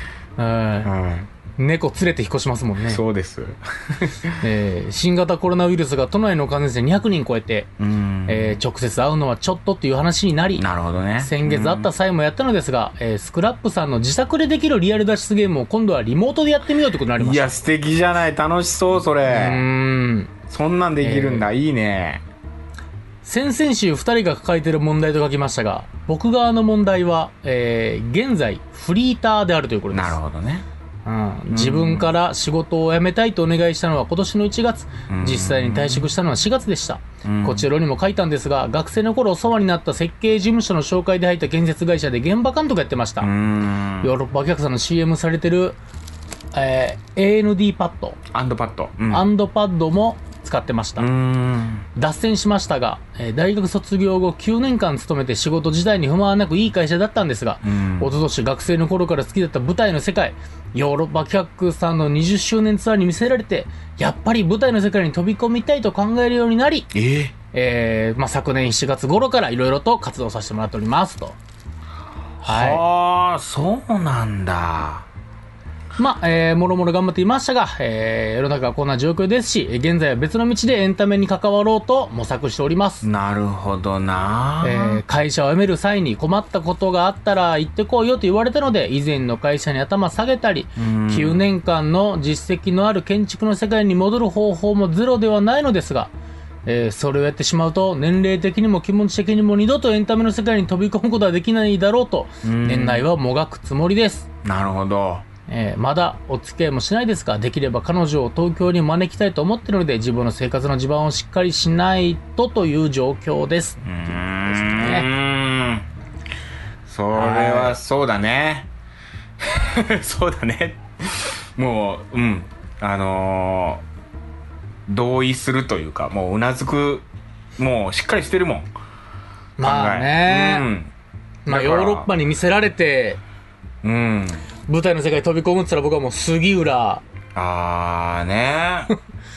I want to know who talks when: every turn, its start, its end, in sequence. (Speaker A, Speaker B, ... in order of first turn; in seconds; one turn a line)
Speaker A: 0.4-0.9
Speaker B: 0.8-1.3
Speaker A: 1.6-3.0
Speaker B: 2.9-4.4
Speaker A: 4.4-7.7
Speaker B: 7.8-8.6
Speaker A: 8.3-10.7
Speaker B: 10.6-11.9
Speaker A: 11.2-17.5
Speaker B: 17.2-19.6
Speaker A: 19.3-20.3
Speaker B: 20.5-22.2
Speaker A: 21.0-21.5
Speaker A: 23.2-30.2
Speaker B: 29.9-30.7
Speaker A: 31.1-43.3
Speaker B: 31.5-32.1
Speaker B: 35.1-36.1
Speaker B: 37.2-37.7
Speaker B: 43.2-44.1
Speaker A: 44.0-45.8
Speaker A: 46.5-48.2
Speaker B: 48.3-49.3
Speaker A: 49.1-51.1
Speaker B: 51.0-51.9
Speaker A: 52.0-66.9
Speaker B: 57.6-58.1
Speaker B: 66.9-67.3
Speaker A: 67.5-71.4
Speaker A: 72.4-72.8
Speaker B: 72.4-75.1
Speaker A: 76.0-83.1
Speaker B: 83.0-85.0
Speaker A: 84.6-96.1
Speaker B: 90.8-91.5
Speaker A: 96.7-104.3
Speaker B: 102.4-103.1
Speaker B: 104.4-105.2
Speaker A: 105.5-113.8
Speaker B: 113.8-115.9
Speaker A: 114.5-115.1
Speaker B: 116.8-118.7
Speaker A: 117.1-117.8
Speaker B: 119.4-123.8
Speaker B: 124.9-127.1
Speaker B: 127.6-128.7
Speaker A: 129.6-130.7
Speaker B: 129.6-130.9
Speaker A: 131.5-133.2
Speaker B: 131.5-132.1
Speaker B: 133.8-134.5
Speaker A: 134.7-137.0
Speaker B: 137.3-138.9